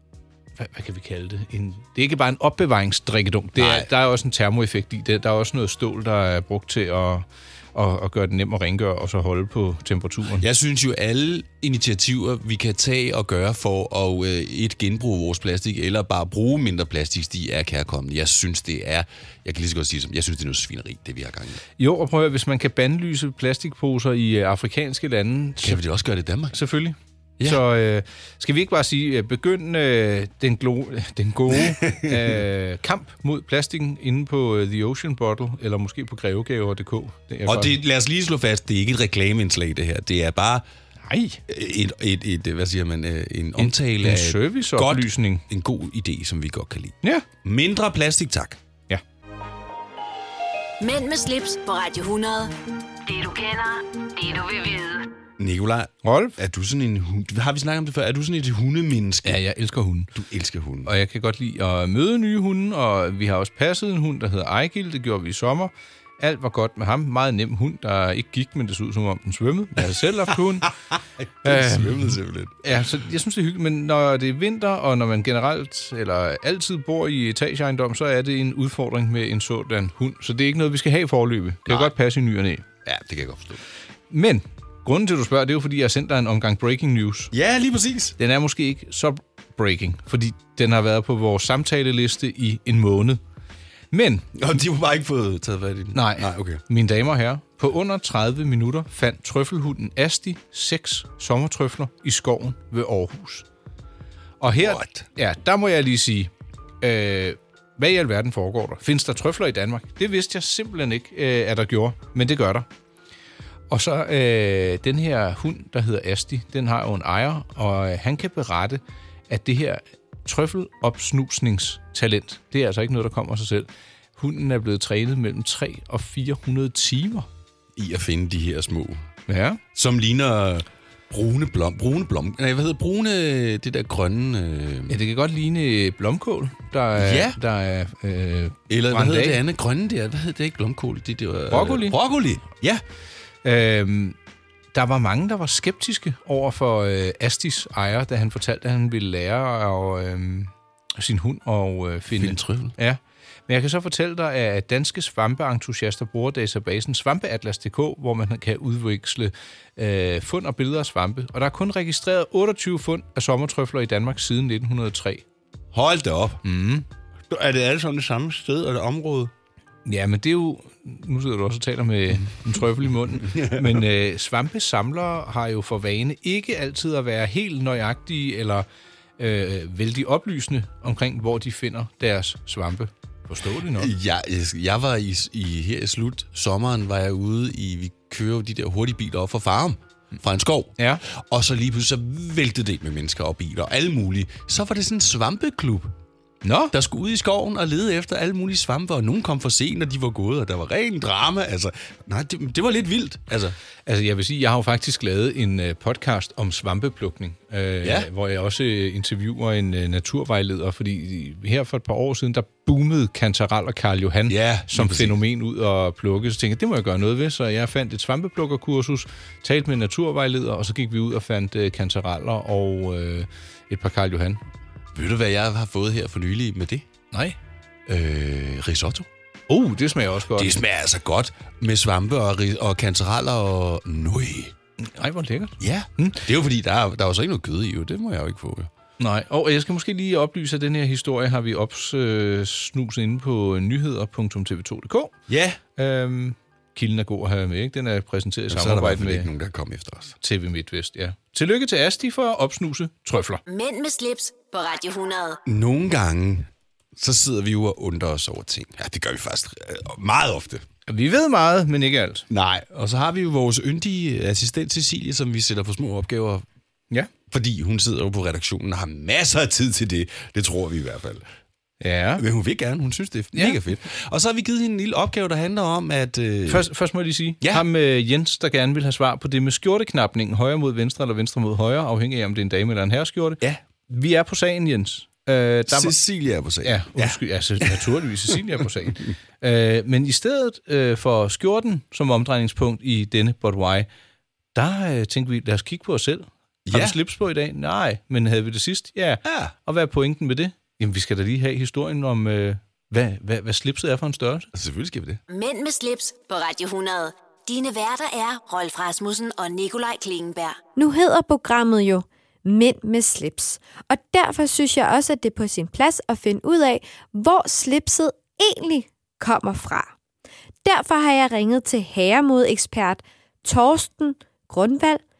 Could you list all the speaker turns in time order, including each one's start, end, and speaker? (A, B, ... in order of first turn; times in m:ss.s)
0:00.6-0:10.4 A
0:03.6-0:03.9 B
0:10.4-0:21.6 B
0:21.8-0:25.8 A
0:25.6-0:26.5 B
0:26.5-0:37.7 A
0:31.5-0:32.3 B
0:37.5-0:40.6 B
0:41.0-0:41.4 A
0:41.5-0:48.6 B
0:43.6-0:45.4 A
0:50.8-0:52.5 C
0:53.0-0:55.1 C
0:55.4-0:59.4 B
0:56.0-0:56.4 A
0:59.2-1:00.1 A
1:00.1-1:00.9 B
1:00.8-1:10.7 A
1:11.4-1:12.6 B
1:11.4-1:22.6 A
1:22.8-1:23.6 B
1:24.1-1:27.3 A
1:27.3-1:28.2 B
1:28.2-1:33.2 A
1:33.9-1:34.3 A
1:34.4-1:36.6 B
1:35.9-1:43.4 A
1:44.4-1:46.3 A
1:44.6-1:45.1 B
1:46.8-1:52.6 A
1:53.7-2:07.3 A
2:07.8-2:09.1 B
2:09.3-2:09.6 A
2:09.7-2:15.0 B
2:14.9-2:19.4 A
2:17.0-2:17.4 B
2:18.7-2:22.6 B
2:21.5-2:22.0 A
2:23.4-2:24.2 A
2:24.7-2:45.2 A
2:32.1-2:32.7 B
2:45.7-2:46.4 B
2:46.4-2:46.8 A
2:47.3-2:49.3 B
2:49.8-2:58.6 A
2:53.2-2:53.8 B
2:59.2-3:03.9 A
3:03.8-3:15.9 B
3:10.8-3:11.0 A
3:16.4-3:16.7 A
3:16.7-3:23.6 B
3:23.8-3:44.4 A
3:27.8-3:28.1 B
3:34.3-3:35.2 B
3:44.9-3:46.8 B
3:47.1-3:47.4 A
3:47.9-3:49.1 B
3:49.5-3:50.6 A
3:50.4-3:54.5 B
3:54.8-3:56.2 A
3:55.6-3:58.7 B
3:59.0-4:05.2 A
4:05.3-4:05.6 B
4:05.8-4:09.3 A
4:08.5-4:10.2 B
4:10.2-4:13.4 A
4:13.4-4:15.4 C
4:15.4-4:20.6 B
4:20.9-4:22.3 A
4:22.3-4:26.4 B
4:27.3-4:31.2 B
4:31.8-4:32.2 A
4:32.2-4:36.7 B
4:36.5-4:45.9 A
4:45.7-4:47.8 B
4:46.6-4:53.9 A
4:54.5-5:04.5 A
4:56.6-4:57.0 B
4:59.2-4:59.5 B
5:04.5-5:05.2 B
5:05.3-5:10.6 C
5:10.8-5:19.9 D
5:20.6-5:25.0 D